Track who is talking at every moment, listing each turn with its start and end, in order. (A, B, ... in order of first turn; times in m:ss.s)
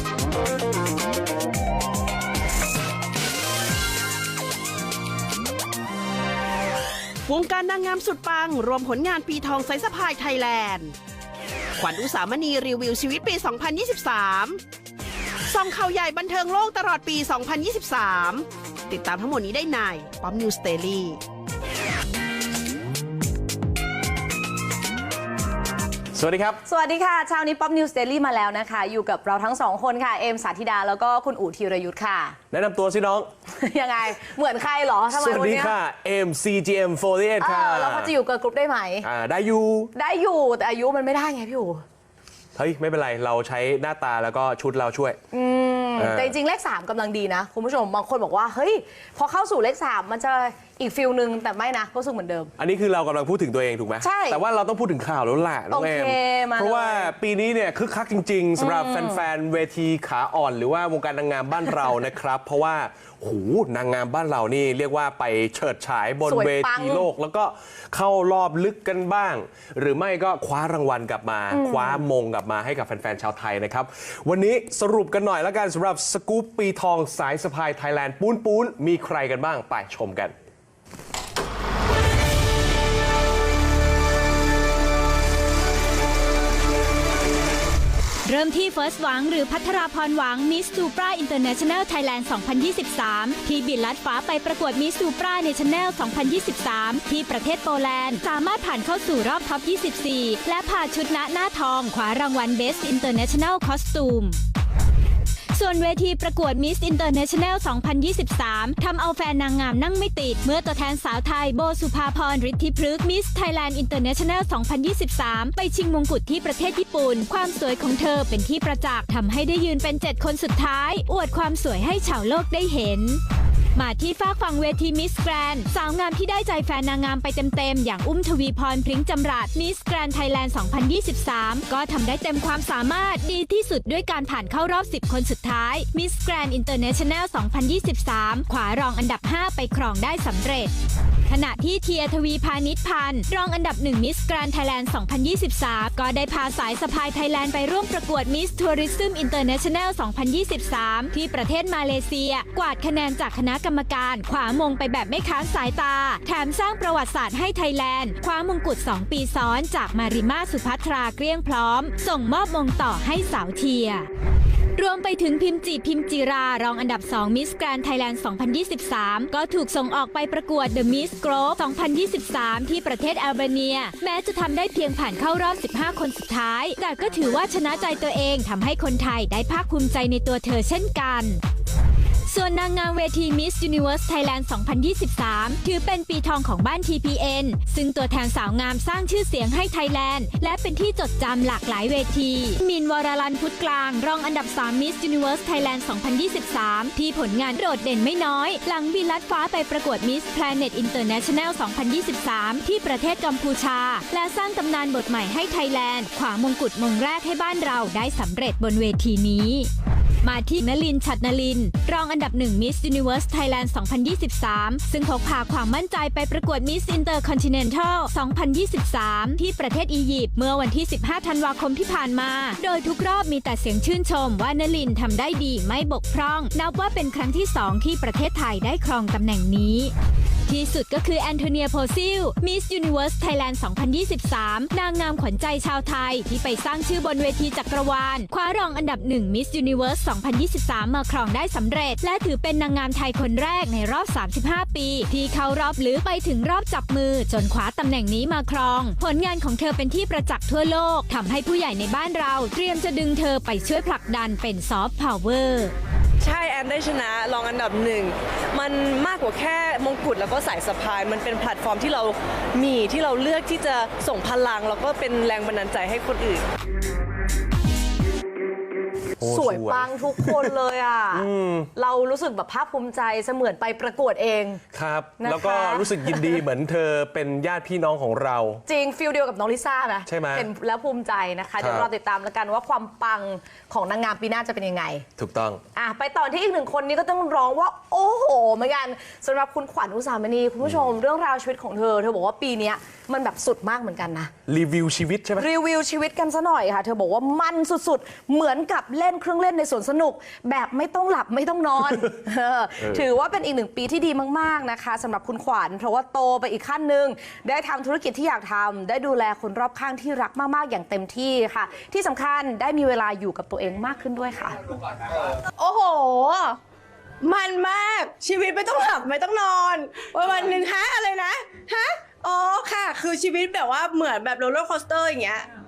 0:07.3-0:11.0 A
0:11.8-0:14.6 A
0:15.5-0:21.2 A
0:26.1-0:26.6 B
0:26.6-0:32.4 C
0:32.5-0:33.3 B
0:33.5-0:35.8 C
0:35.1-0:38.1 B
0:37.4-0:39.1 C
0:39.0-0:39.9 B
0:39.9-0:41.8 C
0:42.6-0:45.2 B
0:45.3-0:52.5 C
0:46.0-0:46.4 B
0:52.6-1:20.3 B
0:54.0-0:54.4 C
0:55.7-0:57.1 C
0:58.6-0:59.2 C
1:06.3-1:07.1 C
1:11.5-1:12.0 C
1:28.2-1:44.4 D
1:45.5-2:03.2 D
2:03.8-2:20.7 D
2:21.3-2:44.1 D
2:44.8-3:01.4 D
3:02.3-3:29.7 D
3:30.2-3:49.9 D
3:50.5-4:15.7 D
4:16.2-4:26.4 E
4:29.2-4:30.5 B
4:29.2-4:34.6 C
4:31.1-4:31.7 B
4:34.7-4:38.6 B
4:35.2-4:36.4 C
4:38.6-4:45.0 C
4:40.0-4:40.5 B
4:41.6-4:41.9 B
4:45.2-4:45.6 B
4:45.7-4:54.3 C
4:54.5-4:55.5 B
4:55.4-5:14.6 C
5:02.8-5:03.0 B
5:15.6-5:16.6 F
5:17.2-5:25.5 F